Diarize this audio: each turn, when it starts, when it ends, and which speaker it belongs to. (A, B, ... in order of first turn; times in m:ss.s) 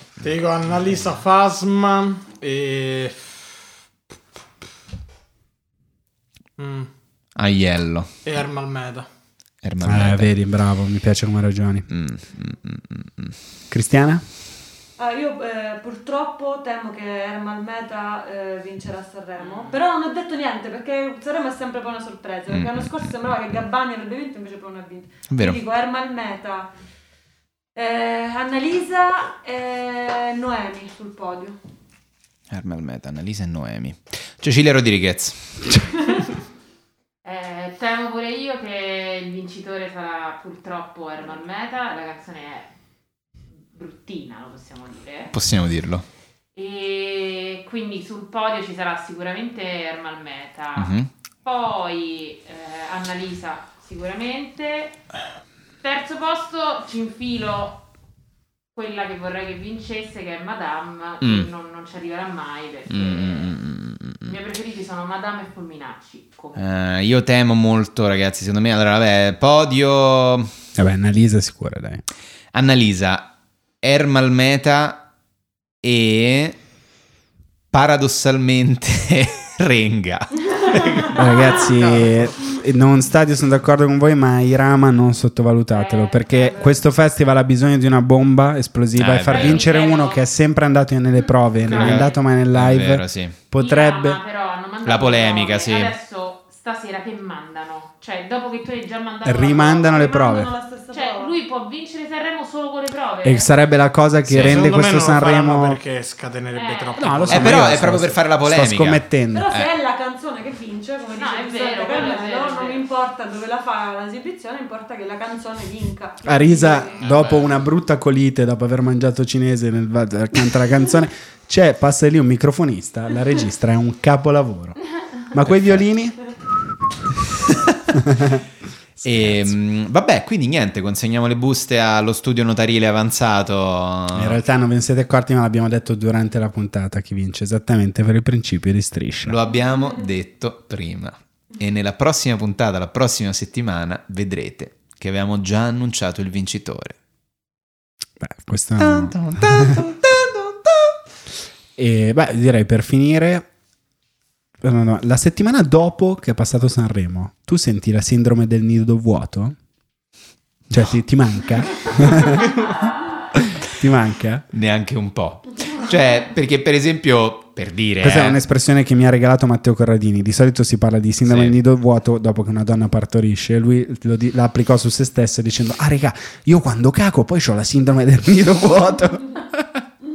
0:00.2-0:03.2 A
0:06.6-0:06.9 A
0:07.4-0:08.2 B
0:08.2-0:09.1 A
0:09.6-0:10.3 B
0:09.8-0:11.9 C
0:11.9-0:13.3 B
0:13.7-0:14.2 C
0:15.0-0:26.7 D
0:19.4-0:19.8 E
0:22.5-0:23.1 B
0:25.3-0:25.6 B
0:27.8-0:31.6 D
0:32.5-0:35.7 B
0:37.2-0:42.7 E
0:43.7-0:45.3 E
0:45.3-0:46.0 B
0:46.6-0:55.0 E
0:50.8-0:51.1 B
0:55.8-0:57.8 E
0:58.7-1:03.6 E
1:01.2-1:01.5 B
1:02.9-1:04.3 B
1:04.2-1:06.6 E
1:06.6-1:10.5 B
1:10.8-1:12.0 C
1:12.5-1:15.0 B
1:15.8-1:16.6 B
1:17.7-1:21.6 B
1:21.1-1:34.2 C
1:21.6-1:22.5 A
1:25.7-1:26.8 E
1:29.0-1:29.7 B
1:29.3-1:30.2 E
1:31.6-1:32.1 E
1:31.7-1:33.4 B
1:33.6-1:39.9 E
1:34.8-1:35.9 B
1:39.2-1:40.5 C
1:39.6-1:41.3 D
1:40.9-1:43.5 E
1:43.2-1:45.8 C
1:44.2-1:44.7 B
1:44.4-1:47.8 A
1:46.5-1:47.2 E
1:47.0-1:49.5 C
1:47.3-1:49.7 B
1:49.3-1:57.0 D
1:51.2-1:52.8 E
1:56.2-2:04.8 C
1:57.0-1:57.4 B
2:05.3-2:06.2 C
2:05.4-2:05.8 B
2:07.9-2:08.4 C
2:09.0-2:09.5 C
2:09.0-2:14.4 B
2:14.1-2:19.4 C
2:19.2-2:27.0 B
2:28.2-2:29.8 C
2:28.8-2:30.9 B
2:31.8-2:33.5 C
2:34.6-2:39.6 C
2:40.7-2:42.5 C
2:42.2-2:42.4 A
2:43.5-2:44.4 C
2:44.5-2:48.4 B
2:48.0-2:59.4 C
2:51.2-2:51.6 B